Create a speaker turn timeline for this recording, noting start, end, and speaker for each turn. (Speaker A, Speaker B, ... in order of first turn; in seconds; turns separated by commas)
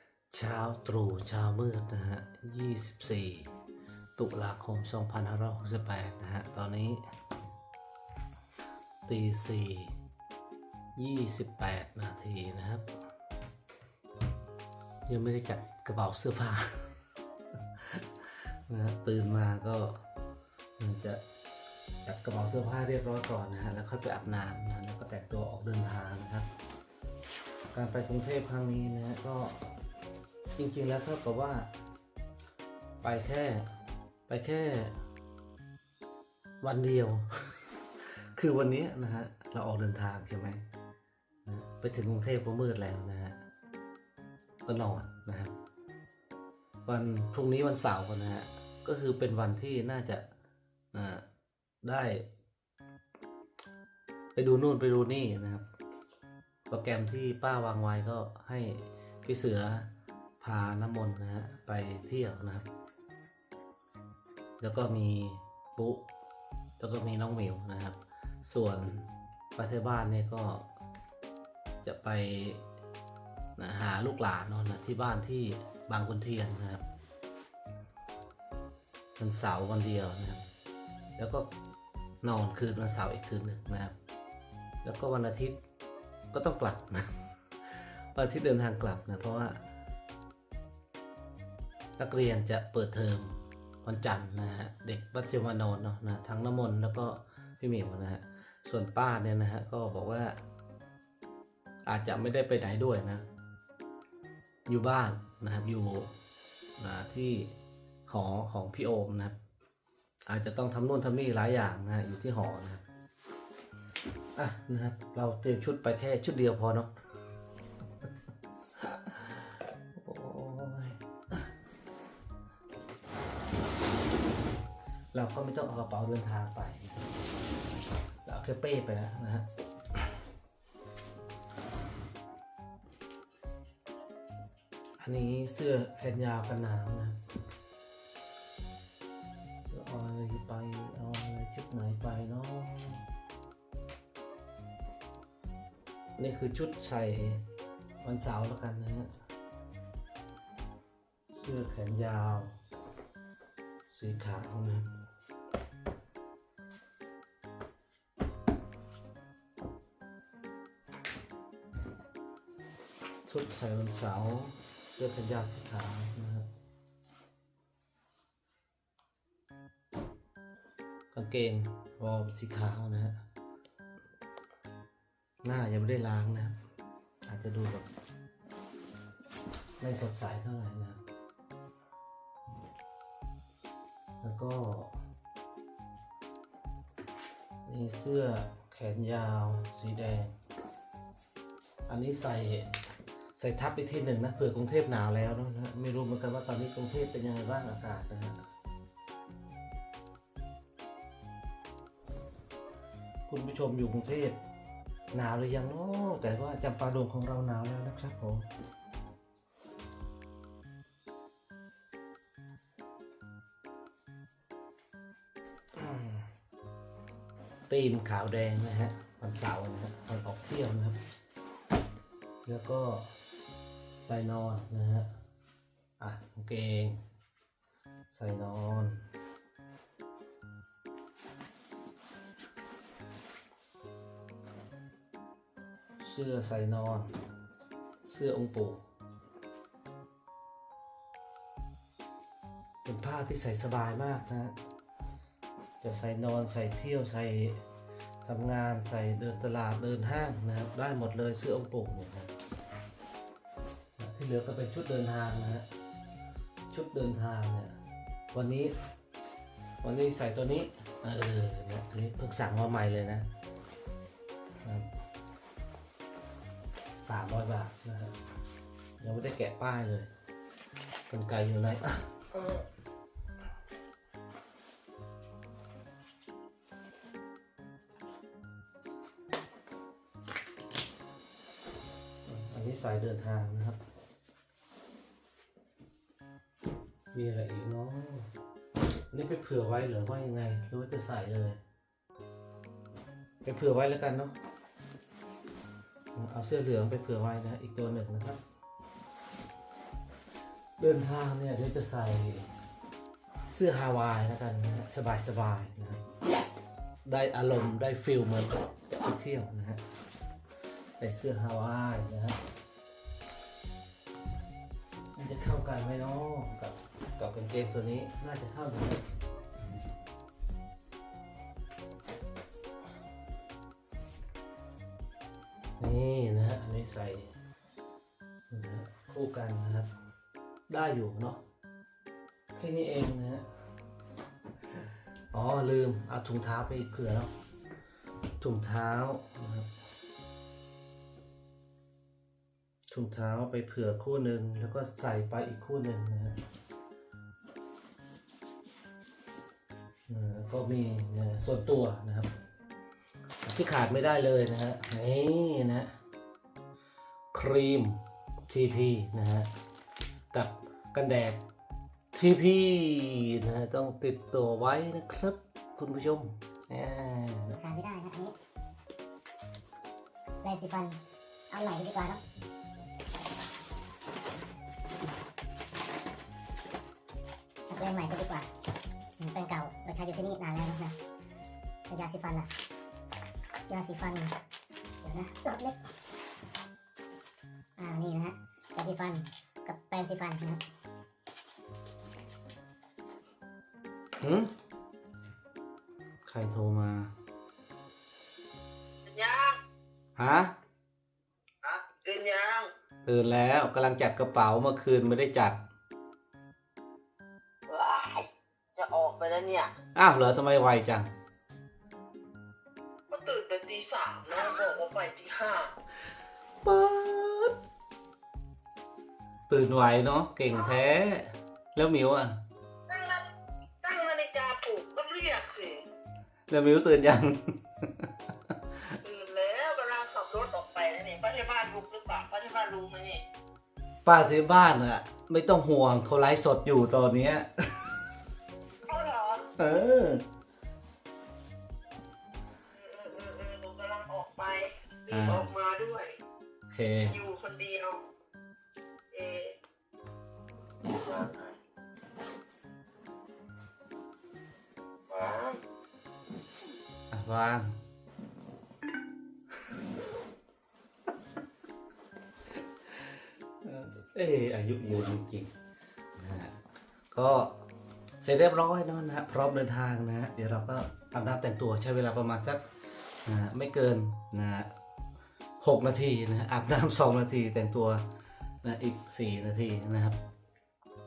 Speaker A: 0.3-3.5, Speaker A: 4.2-7.0, Speaker A: 9.1-9.9, Speaker A: 10.9-12.8, Speaker A: 15.1-16.9, Speaker A: 17.8-20.0, Speaker A: 20.8-21.2, Speaker A: 22.0-26.5, Speaker A: 27.7-29.7, Speaker A: 30.6-31.7, Speaker A: 33.0-33.6, Speaker A: 34.3-35.0, Speaker A: 36.6-40.6, Speaker A: 41.5-43.4, Speaker A: 44.6-45.5, Speaker A: 46.9-50.2, Speaker A: 50.9-51.2, Speaker A: 51.8-52.3, Speaker A: 54.3-55.6, Speaker A: 56.7-59.9, Speaker A: 60.4-62.6, Speaker A: 64.6-66.0, Speaker A: 66.8-70.7, Speaker A: 71.8-72.6, Speaker A: 73.6-76.8, Speaker A: 79.2-80.4, Speaker A: 81.2-81.5, Speaker A: 82.2-83.9, Speaker A: 84.8-85.6, Speaker A: 86.3-87.1, Speaker A: 87.7-89.6, Speaker A: 92.0-100.4, Speaker A: 101.8-103.2, Speaker A: 104.7-106.1, Speaker A: 106.8-107.5, Speaker A: 108.1-109.3, Speaker A: 110.3-112.8, Speaker A: 114.3-116.9, Speaker A: 118.8-121.5, Speaker A: 125.1-126.9, Speaker A: 128.2-129.4, Speaker A: 135.0-137.2, Speaker A: 139.7-143.0, Speaker A: 146.2-147.4, Speaker A: 148.0-149.1, Speaker A: 151.3-152.5, Speaker A: 153.9-154.8, Speaker A: 163.2-166.5, Speaker A: 171.1-173.2, Speaker A: 175.4-176.5, Speaker A: 177.3-177.8, Speaker A: 179.8-181.0, Speaker A: 184.2-184.9, Speaker A: 187.6-190.3, Speaker A: 191.9-192.7, Speaker A: 193.3-198.4, Speaker A: 203.3-204.4, Speaker A: 205.1-208.4, Speaker A: 215.8-216.2, Speaker A: 217.7-221.0, Speaker A: 222.4-223.1, Speaker A: 224.0-225.1, Speaker A: 226.0-227.0, Speaker A: 228.1-229.0, Speaker A: 236.0-237.1, Speaker A: 238.1-238.8, Speaker A: 242.8-244.5, Speaker A: 245.8-247.6, Speaker A: 248.2-252.3, Speaker A: 254.0-255.6, Speaker A: 256.7-257.7, Speaker A: 258.3-258.7, Speaker A: 259.8-263.3, Speaker A: 264.6-264.9, Speaker A: 267.0-268.1, Speaker A: 269.0-270.1, Speaker A: 271.1-272.5, Speaker A: 282.2-283.8, Speaker A: 287.1-288.3, Speaker A: 289.1-291.6, Speaker A: 293.4-294.3, Speaker A: 296.1-298.4, Speaker A: 300.8-302.5, Speaker A: 303.5-306.0, Speaker A: 307.0-309.8, Speaker A: 311.0-312.4, Speaker A: 315.1-319.0, Speaker A: 325.8-327.3, Speaker A: 328.5-329.9, Speaker A: 330.7-331.4, Speaker A: 332.5-333.4, Speaker A: 335.3-337.3, Speaker A: 338.4-339.7, Speaker A: 342.9-346.4, Speaker A: 350.1-352.3, Speaker A: 353.4-355.9, Speaker A: 357.3-359.5, Speaker A: 360.3-361.4, Speaker A: 362.1-367.6, Speaker B: 367.5-368.3, Speaker B: 370.4-371.0, Speaker B: 371.5-372.2, Speaker B: 377.7-378.5, Speaker B: 379.2-380.9, Speaker B: 381.9-382.5, Speaker B: 383.7-384.3, Speaker B: 385.0-385.9, Speaker B: 387.8-390.6, Speaker A: 394.2-394.5, Speaker A: 396.2-397.1, Speaker C: 399.0-399.6, Speaker A: 400.2-400.5, Speaker C: 401.6-402.7, Speaker A: 403.0-405.6, Speaker C: 407.7-409.7, Speaker A: 409.9-411.1, Speaker C: 413.1-415.7, Speaker A: 416.6-417.6, Speaker A: 419.5-422.4, Speaker C: 422.9-423.3, Speaker C: 423.8-425.8, Speaker A: 426.5-428.1, Speaker C: 429.0-433.2, Speaker A: 434.0-437.9, Speaker C: 438.8-439.5, Speaker A: 439.6-440.2, Speaker C: 442.7-446.2, Speaker A: 445.1-445.5, Speaker A: 446.7-447.2, Speaker C: 447.0-448.0, Speaker C: 449.1-449.6, Speaker C: 450.8-451.6, Speaker C: 455.1-455.6, Speaker A: 457.1-457.8, Speaker A: 462.9-465.5, Speaker A: 466.2-466.5, Speaker A: 467.1-467.6, Speaker A: 468.2-472.6, Speaker A: 473.2-474.7, Speaker A: 475.6-478.0, Speaker A: 478.6-480.2